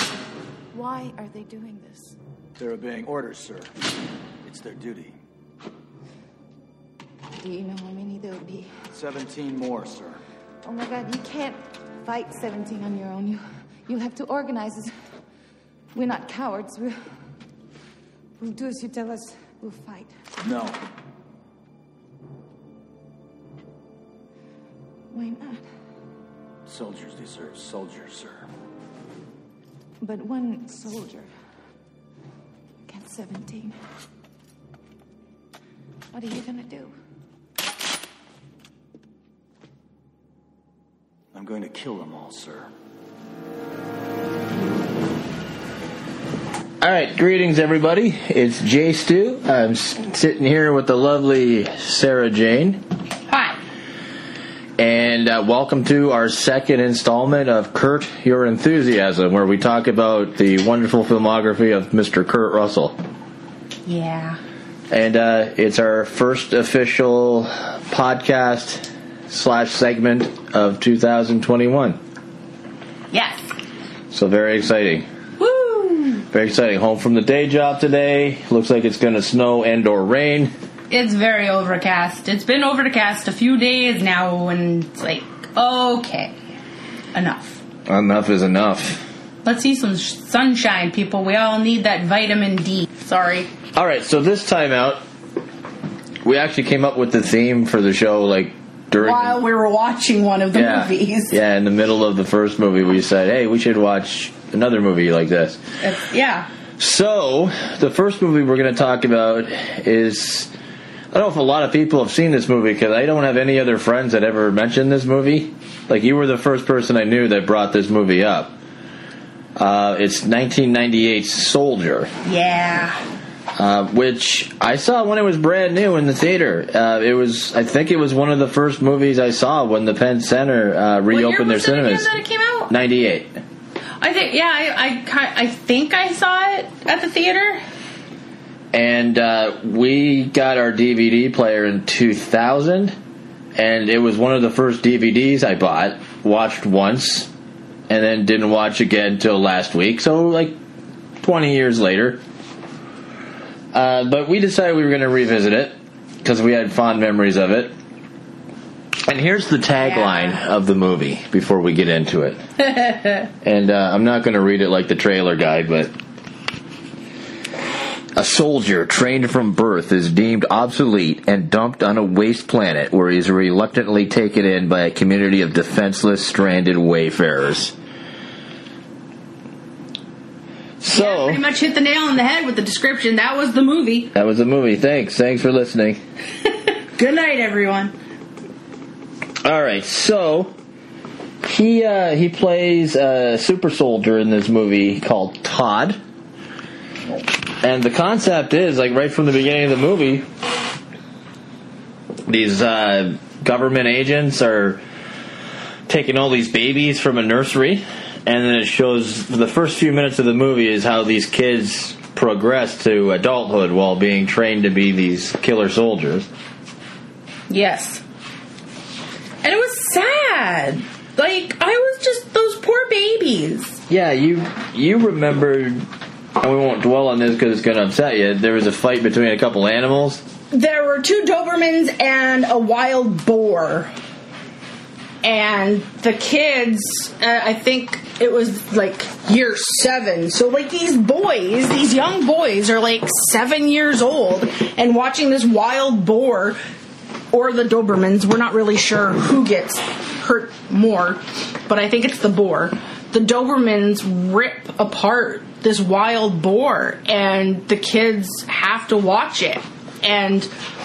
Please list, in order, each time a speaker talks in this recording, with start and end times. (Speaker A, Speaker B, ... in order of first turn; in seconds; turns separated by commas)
Speaker A: 0.7-2.2, Speaker B: 2.6-3.7, Speaker B: 4.4-5.2, Speaker A: 7.4-8.8, Speaker B: 8.9-10.2, Speaker A: 10.6-14.9, Speaker A: 15.9-17.0, Speaker A: 18.4-20.1, Speaker B: 20.4-20.8, Speaker A: 25.1-25.6, Speaker B: 26.7-28.5, Speaker A: 30.0-31.3, Speaker A: 32.9-33.8, Speaker A: 36.1-36.9, Speaker B: 41.3-42.7, Speaker C: 46.8-52.8, Speaker D: 53.3-53.6, Speaker C: 54.8-63.0, Speaker D: 63.9-64.4, Speaker C: 64.9-72.0, Speaker D: 73.1-73.5, Speaker C: 74.1-75.1, Speaker D: 75.4-76.3, Speaker C: 76.3-80.5, Speaker D: 80.9-86.3, Speaker D: 87.1-87.6, Speaker C: 87.9-89.0, Speaker D: 89.5-93.5, Speaker C: 93.8-95.0, Speaker C: 96.2-99.4, Speaker D: 99.0-101.4, Speaker C: 100.5-105.6, Speaker D: 105.8-106.5, Speaker C: 106.8-110.5, Speaker C: 111.1-118.5, Speaker C: 119.6-122.1, Speaker D: 122.2-123.0, Speaker C: 123.6-132.1, Speaker D: 131.1-132.7, Speaker C: 132.7-133.4, Speaker D: 134.0-137.6, Speaker C: 138.7-143.0, Speaker C: 143.6-147.3, Speaker C: 147.9-150.6, Speaker C: 151.2-152.2, Speaker C: 153.7-157.7, Speaker C: 159.1-162.4, Speaker D: 159.8-160.4, Speaker C: 163.4-165.9, Speaker C: 168.2-177.7, Speaker C: 180.8-181.4, Speaker D: 180.9-184.1, Speaker C: 184.1-186.0, Speaker D: 187.0-187.9, Speaker C: 189.4-190.5, Speaker C: 191.4-196.0, Speaker C: 197.6-200.3, Speaker C: 202.3-204.8, Speaker C: 205.9-216.3, Speaker D: 217.5-218.0, Speaker D: 219.4-223.8, Speaker C: 223.9-225.8, Speaker C: 226.4-230.2, Speaker D: 230.5-233.9, Speaker D: 235.2-246.6, Speaker D: 247.3-260.5